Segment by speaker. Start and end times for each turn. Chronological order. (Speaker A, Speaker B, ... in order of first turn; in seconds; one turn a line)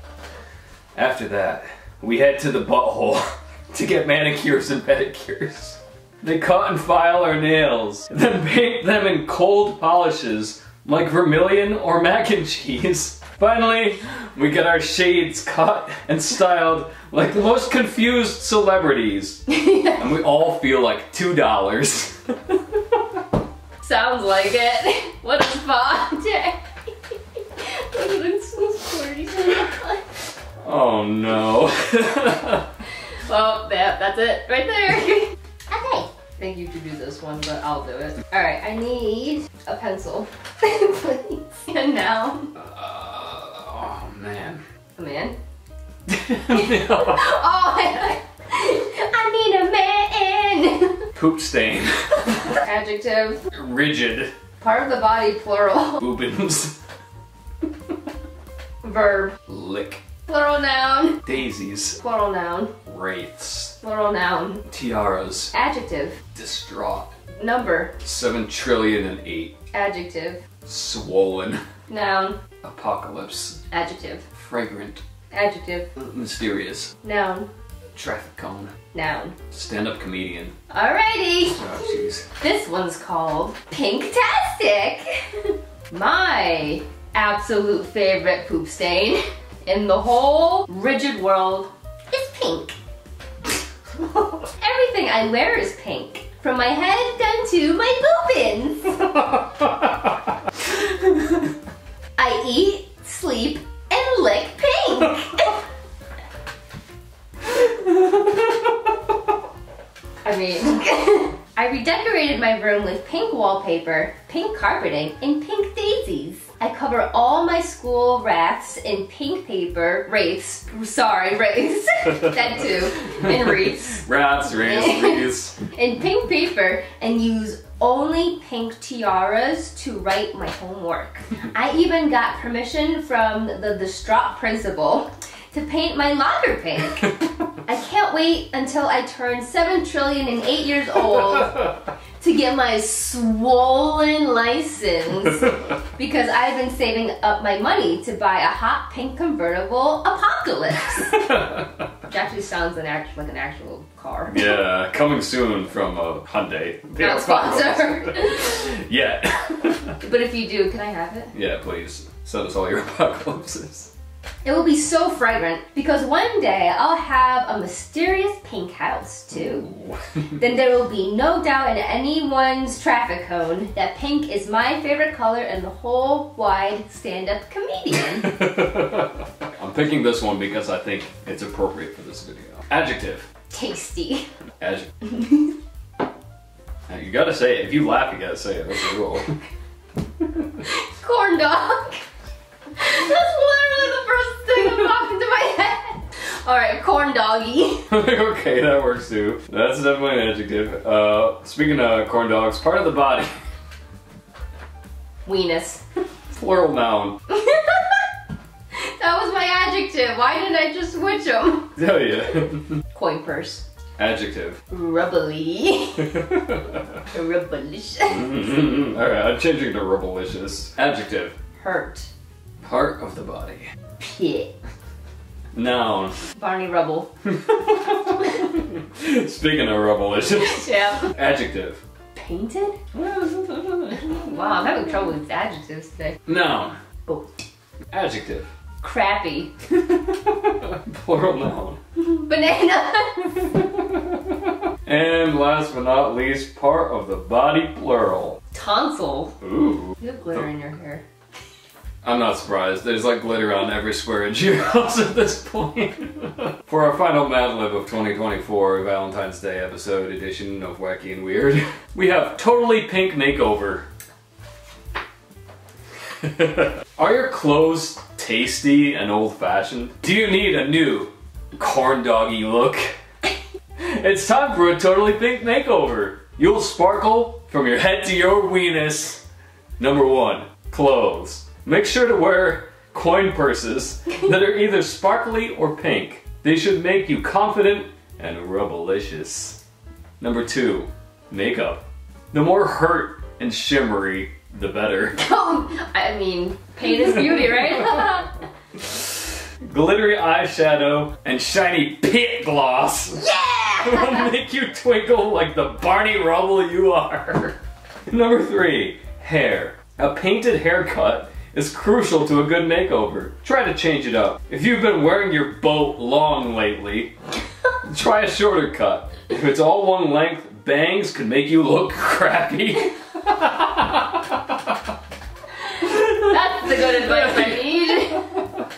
Speaker A: 0.9-23.0
Speaker B: 19.5-20.0
Speaker B: 23.8-26.6
Speaker B: 27.6-30.0
Speaker A: 30.6-32.7
Speaker B: 33.2-42.5
Speaker A: 42.5-44.6
Speaker B: 45.0-45.4
Speaker A: 46.1-47.2
Speaker B: 46.5-51.1
Speaker A: 51.1-52.6
Speaker B: 52.6-53.4
Speaker A: 53.5-54.3
Speaker B: 54.6-56.0
Speaker A: 56.0-56.8
Speaker B: 58.8-59.4
Speaker A: 59.5-60.0
Speaker B: 60.2-61.2
Speaker A: 61.2-62.0
Speaker B: 62.0-62.8
Speaker A: 62.9-63.8
Speaker B: 63.8-64.6
Speaker A: 64.7-65.5
Speaker B: 65.5-66.2
Speaker A: 66.3-67.1
Speaker B: 67.4-67.9
Speaker A: 68.0-69.5
Speaker B: 69.7-70.4
Speaker A: 70.6-71.6
Speaker B: 71.9-72.4
Speaker A: 72.6-73.6
Speaker B: 73.7-74.2
Speaker A: 74.3-75.0
Speaker B: 75.3-75.9
Speaker A: 75.9-76.9
Speaker B: 77.0-77.5
Speaker A: 77.9-78.7
Speaker B: 78.9-79.3
Speaker A: 79.5-80.5
Speaker B: 80.7-92.8
Speaker A: 81.5-82.2
Speaker B: 94.0-99.1
Speaker B: 102.2-105.6
Speaker B: 110.2-151.2
Speaker A: 123.1-125.6
Speaker A: 151.1-151.7
Speaker B: 152.1-154.4
Speaker A: 154.3-159.9
Speaker B: 157.0-158.7
Speaker B: 160.0-161.3
Speaker A: 161.3-163.9
Speaker B: 164.4-169.7
Speaker A: 169.3-170.4
Speaker B: 170.3-178.4
Speaker A: 178.2-183.3
Speaker B: 183.5-184.3
Speaker A: 184.6-184.9
Speaker B: 185.0-185.5
Speaker A: 186.9-189.4
Speaker B: 190.6-192.0
Speaker B: 192.8-197.9
Speaker A: 197.9-203.3
Speaker B: 205.2-205.8
Speaker A: 206.3-207.2
Speaker B: 207.3-208.0
Speaker B: 208.7-211.7
Speaker A: 211.8-212.8
Speaker B: 212.9-213.6
Speaker A: 214.0-214.6
Speaker B: 214.7-216.3
Speaker A: 216.0-216.8
Speaker B: 217.1-218.5
Speaker A: 218.1-221.3
Speaker B: 221.6-222.1
Speaker A: 222.6-223.7
Speaker B: 224.0-224.5
Speaker A: 225.5-226.2
Speaker B: 226.3-227.1
Speaker A: 227.2-231.8
Speaker B: 230.4-231.1
Speaker B: 232.1-232.8
Speaker A: 232.9-234.3
Speaker B: 233.9-236.2
Speaker A: 236.2-236.8
Speaker A: 237.9-238.5
Speaker B: 238.8-239.5
Speaker A: 239.7-241.8
Speaker B: 242.0-243.4
Speaker A: 243.4-248.4
Speaker B: 248.5-249.4
Speaker A: 249.4-249.9
Speaker B: 250.0-251.0
Speaker A: 252.0-263.9
Speaker A: 266.2-272.9
Speaker A: 273.8-279.2
Speaker A: 279.8-289.6
Speaker A: 290.2-295.2
Speaker B: 295.2-298.4
Speaker A: 297.3-297.8
Speaker A: 299.6-307.6
Speaker B: 303.2-304.3
Speaker A: 308.1-317.1
Speaker A: 317.8-324.5
Speaker B: 325.8-328.3
Speaker A: 325.8-328.2